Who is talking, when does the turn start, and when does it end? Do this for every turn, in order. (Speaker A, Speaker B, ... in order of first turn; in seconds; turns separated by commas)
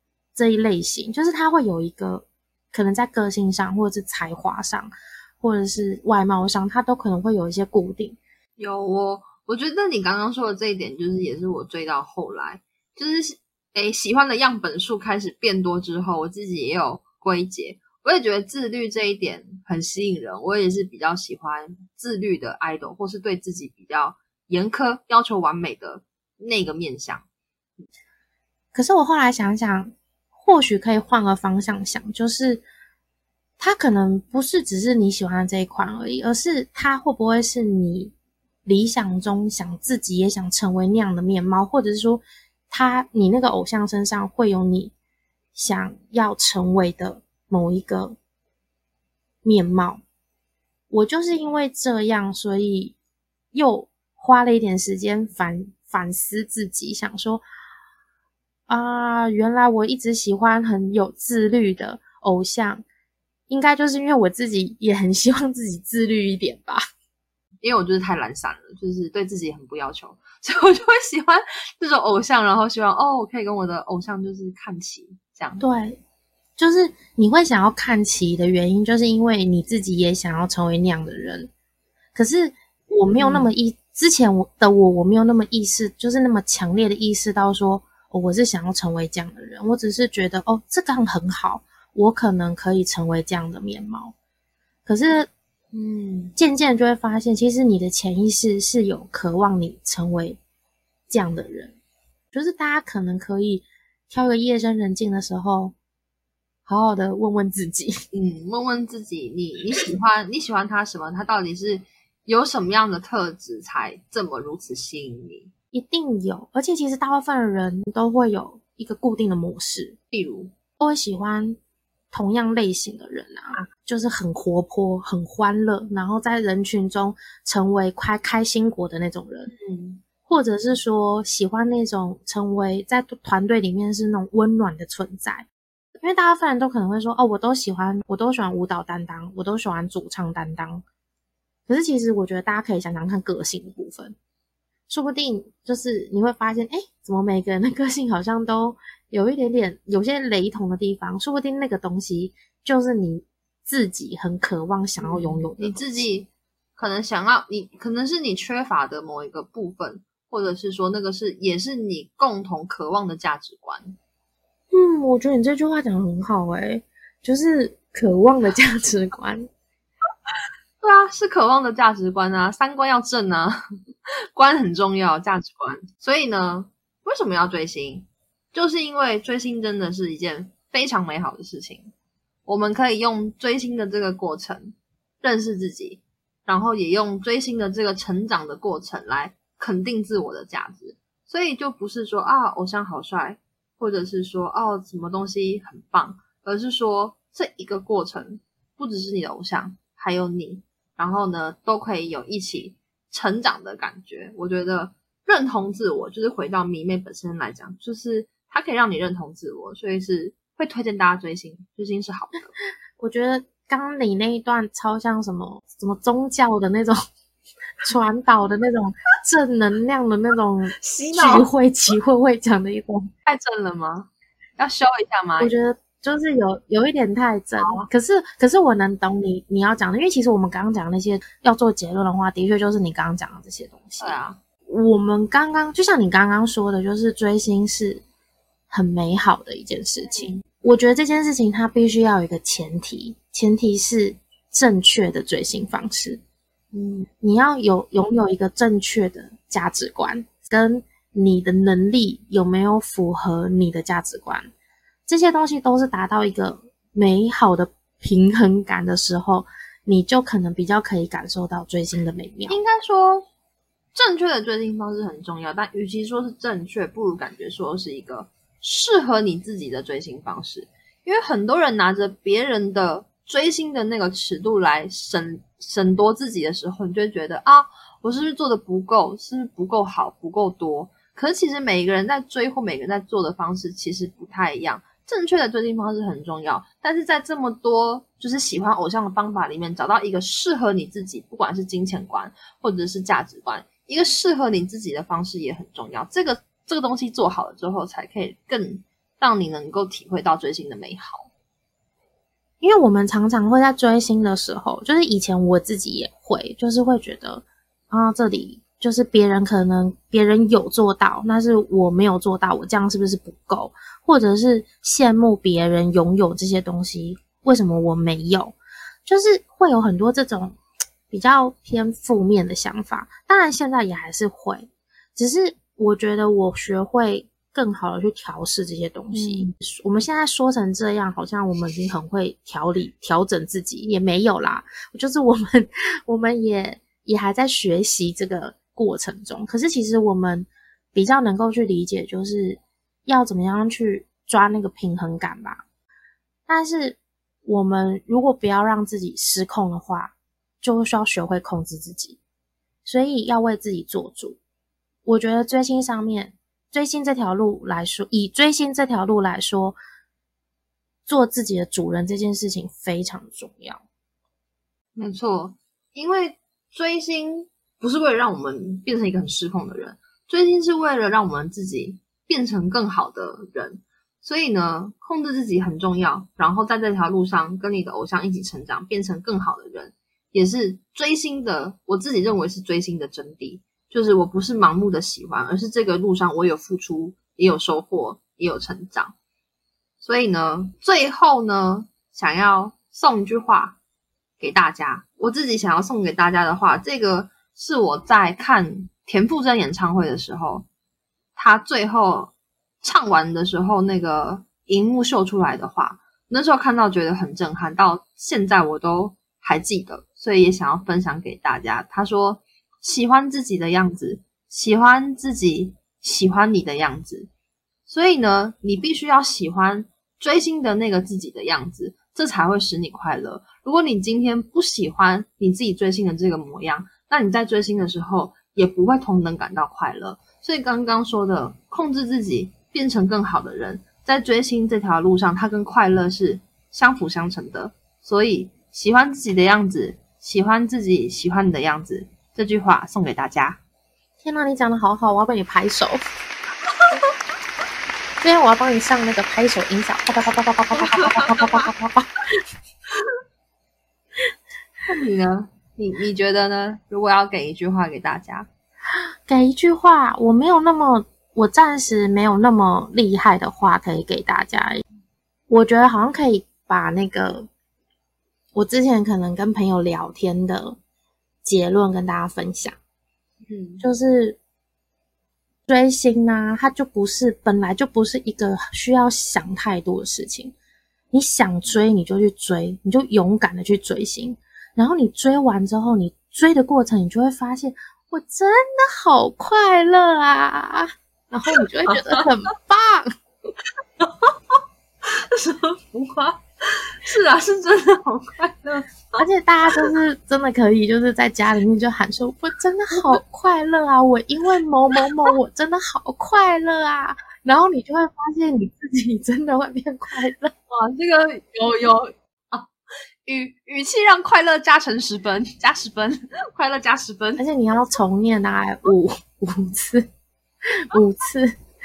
Speaker A: 0.3-8.2, Speaker B: 8.6-27.3, Speaker A: 28.7-32.6, Speaker A: 33.6-38.1, Speaker A: 38.6-44.9, Speaker A: 45.5-48.2, Speaker A: 49.4-50.0, Speaker A: 50.9-53.0, Speaker A: 53.5-57.4, Speaker A: 58.7-62.9, Speaker A: 63.5-66.8, Speaker B: 67.6-75.7, Speaker A: 75.6-76.0, Speaker A: 76.6-81.5, Speaker A: 82.2-94.1, Speaker B: 83.1-83.5, Speaker A: 94.9-95.3, Speaker B: 95.7-96.3, Speaker A: 96.4-100.4, Speaker A: 101.1-101.8, Speaker A: 102.3-105.8, Speaker A: 106.7-107.9, Speaker B: 108.1-115.5, Speaker A: 115.7-120.0, Speaker B: 120.1-120.5, Speaker A: 120.8-121.6, Speaker A: 122.1-129.5, Speaker B: 129.5-130.0, Speaker A: 130.3-135.5, Speaker A: 136.0-140.8, Speaker A: 141.7-144.2, Speaker A: 144.9-156.1, Speaker B: 155.0-164.0, Speaker A: 164.7-169.5, Speaker B: 170.8-173.6, Speaker B: 174.3-181.9, Speaker B: 182.5-212.6, Speaker A: 213.0-217.0, Speaker A: 217.8-223.1, Speaker B: 220.8-221.5, Speaker B: 223.2-225.5, Speaker A: 225.4-238.0, Speaker B: 227.6-227.9, Speaker B: 234.0-234.4, Speaker A: 238.7-246.2, Speaker B: 240.0-240.4, Speaker B: 246.7-247.1, Speaker A: 247.2-254.5, Speaker A: 255.1-262.6, Speaker B: 262.5-263.3, Speaker B: 263.9-301.3, Speaker A: 302.6-320.6, Speaker A: 321.1-345.6, Speaker B: 329.1-329.5, Speaker A: 346.5-352.2, Speaker A: 352.9-354.4, Speaker A: 355.1-359.8, Speaker A: 361.1-363.8, Speaker B: 365.0-389.1, Speaker B: 390.0-393.8, Speaker B: 394.4-400.7, Speaker B: 401.4-417.3, Speaker B: 417.9-443.6, Speaker A: 444.2-446.0, Speaker A: 448.2-452.1, Speaker B: 450.8-451.7, Speaker B: 454.9-458.5, Speaker A: 459.3-464.8, Speaker A: 465.5-467.5, Speaker A: 468.6-470.8, Speaker A: 471.4-472.8, Speaker B: 473.5-473.9, Speaker A: 473.8-474.4, Speaker A: 475.7-480.5, Speaker A: 481.1-493.1, Speaker B: 491.6-492.2, Speaker B: 494.0-499.9, Speaker A: 499.2-510.5, Speaker B: 510.7-512.7, Speaker B: 513.2-517.4, Speaker A: 517.4-520.1, Speaker A: 520.6-521.6